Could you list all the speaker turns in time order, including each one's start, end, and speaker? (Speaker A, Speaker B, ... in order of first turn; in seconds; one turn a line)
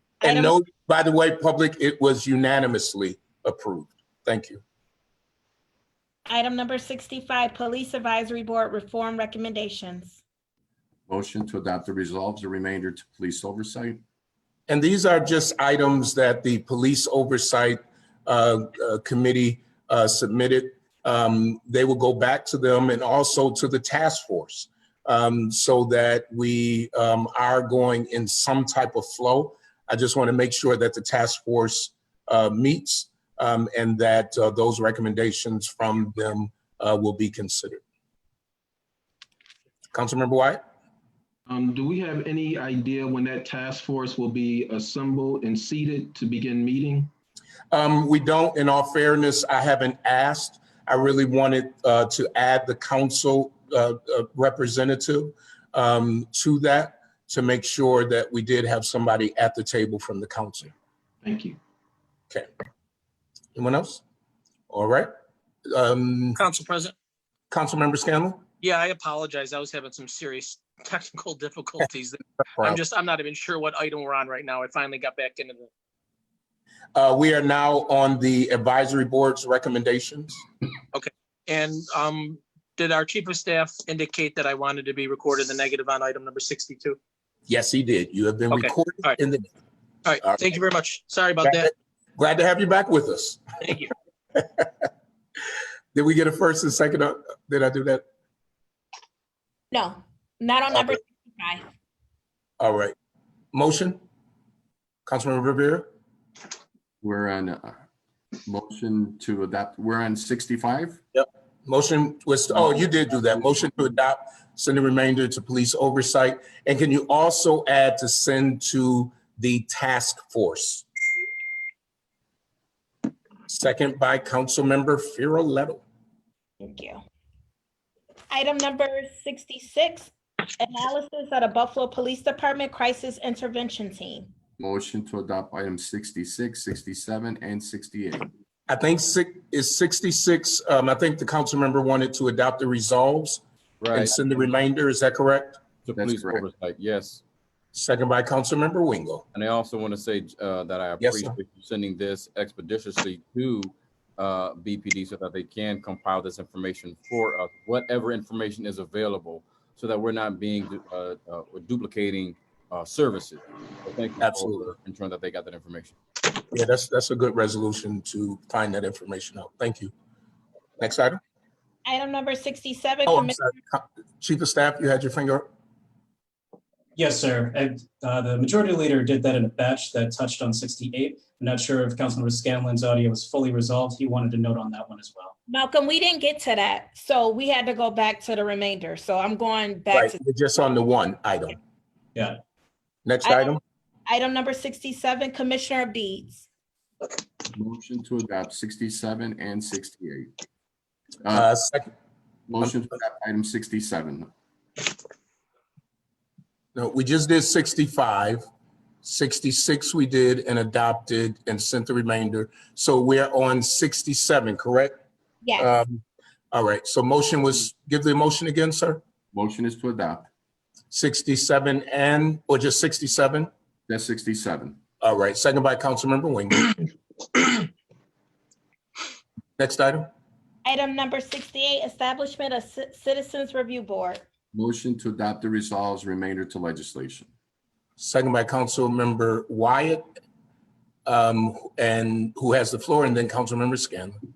Speaker A: 0.2-0.6
Speaker B: 0.2-4.6
Speaker A: 6.3-10.2
Speaker C: 11.1-14.0
Speaker B: 14.7-37.8
Speaker B: 39.9-40.6
Speaker D: 41.5-47.1
Speaker B: 47.7-60.7
Speaker D: 61.2-61.6
Speaker B: 63.5-64.0
Speaker B: 64.7-65.1
Speaker B: 65.7-66.4
Speaker E: 66.3-66.9
Speaker B: 67.5-68.4
Speaker E: 68.6-75.7
Speaker B: 76.9-80.4
Speaker E: 80.9-87.0
Speaker B: 87.5-89.5
Speaker E: 88.5-89.2
Speaker E: 90.0-91.7
Speaker B: 92.2-94.7
Speaker B: 95.9-98.0
Speaker A: 99.7-101.7
Speaker B: 102.6-102.9
Speaker B: 103.5-104.0
Speaker B: 105.0-105.9
Speaker C: 107.0-107.8
Speaker C: 108.5-111.0
Speaker B: 111.1-120.8
Speaker B: 123.5-125.8
Speaker A: 126.6-127.0
Speaker A: 128.3-134.3
Speaker C: 134.6-138.3
Speaker B: 138.7-145.6
Speaker F: 143.8-144.5
Speaker F: 145.8-147.2
Speaker C: 146.0-146.5
Speaker B: 147.7-149.2
Speaker F: 149.3-165.9
Speaker B: 151.0-151.3
Speaker B: 164.2-164.7
Speaker B: 166.5-169.9
Speaker B: 170.8-171.2
Speaker A: 171.8-173.4
Speaker B: 173.1-175.5
Speaker G: 177.0-185.3
Speaker A: 185.5-190.2
Speaker B: 189.9-191.6
Speaker B: 193.0-193.6
Speaker A: 193.2-193.5
Speaker A: 194.1-196.4
Speaker C: 197.5-200.3
Speaker B: 201.3-201.9
Speaker C: 202.5-204.3
Speaker B: 206.7-208.4
Speaker B: 209.0-214.9
Speaker A: 215.4-215.8
Speaker B: 215.6-219.0
Speaker C: 219.3-220.3
Speaker B: 220.9-223.5
Speaker C: 223.9-224.8
Speaker B: 225.0-226.7
Speaker B: 229.6-230.1
Speaker A: 230.6-234.2
Speaker C: 234.5-237.3
Speaker B: 238.0-240.0
Speaker B: 241.1-244.2